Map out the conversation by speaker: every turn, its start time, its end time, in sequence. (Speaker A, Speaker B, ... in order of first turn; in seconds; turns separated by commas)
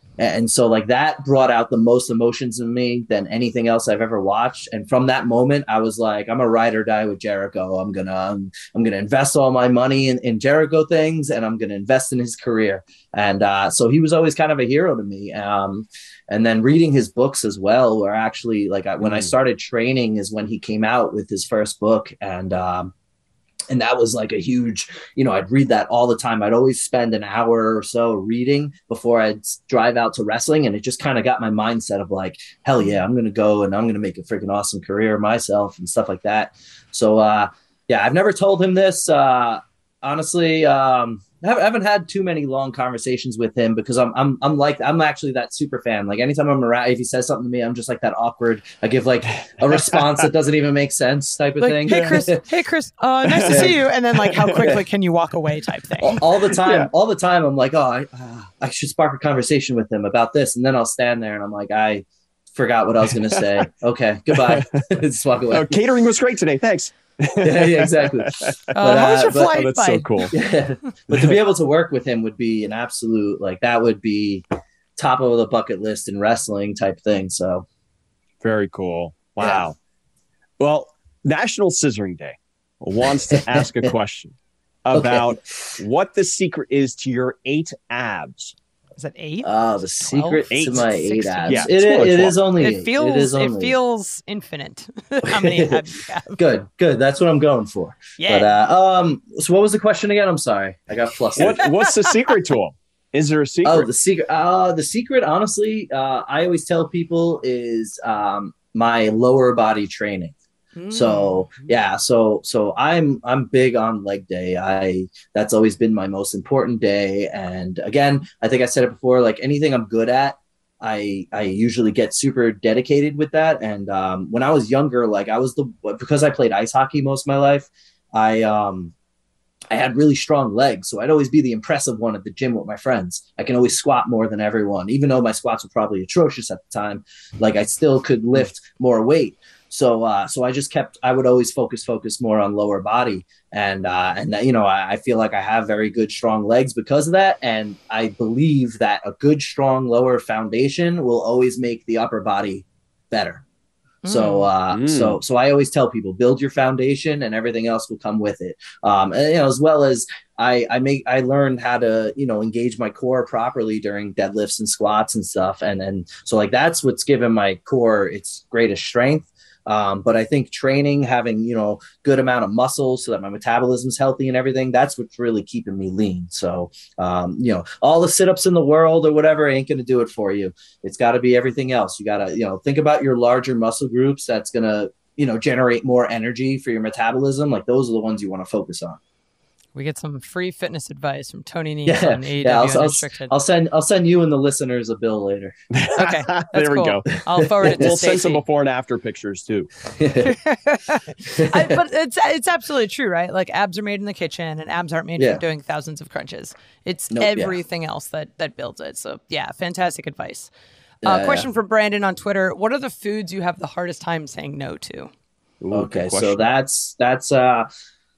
Speaker A: 0.2-22.9, Speaker B: 19.0-19.3, Speaker A: 23.7-52.4, Speaker B: 49.7-50.1, Speaker C: 51.6-56.2, Speaker B: 51.9-52.2, Speaker B: 53.3-53.7, Speaker A: 53.5-53.8, Speaker B: 54.3-54.8, Speaker A: 56.0-65.8, Speaker B: 56.6-56.9, Speaker B: 63.3-63.7, Speaker B: 64.3-64.8, Speaker B: 65.5-70.4, Speaker A: 67.4-69.6, Speaker C: 68.8-70.3, Speaker A: 70.3-74.4, Speaker B: 71.1-71.4, Speaker A: 75.0-77.7, Speaker B: 78.4-79.8, Speaker A: 79.4-79.7, Speaker B: 80.6-84.3, Speaker A: 83.3-83.9, Speaker B: 84.9-88.5, Speaker A: 84.9-85.8, Speaker C: 89.0-91.8, Speaker A: 89.4-93.7, Speaker B: 90.5-90.9, Speaker B: 91.5-92.4, Speaker C: 92.6-96.4, Speaker A: 95.2-95.8, Speaker A: 96.3-101.6, Speaker C: 98.2-98.5, Speaker B: 101.4-103.9, Speaker C: 101.6-102.1, Speaker A: 103.6-110.4, Speaker C: 110.8-111.5, Speaker A: 110.9-128.9, Speaker A: 129.7-153.4, Speaker C: 154.0-154.5, Speaker A: 154.1-189.0, Speaker B: 154.7-155.2, Speaker C: 189.8-193.3, Speaker A: 191.9-195.5, Speaker B: 195.7-199.7, Speaker C: 195.9-198.4, Speaker A: 197.6-197.9, Speaker A: 199.9-200.4, Speaker C: 200.2-210.5, Speaker A: 201.3-201.8, Speaker A: 205.2-205.4, Speaker A: 207.1-207.6, Speaker C: 211.0-215.1, Speaker A: 211.0-211.5, Speaker B: 215.6-216.4, Speaker A: 215.7-217.7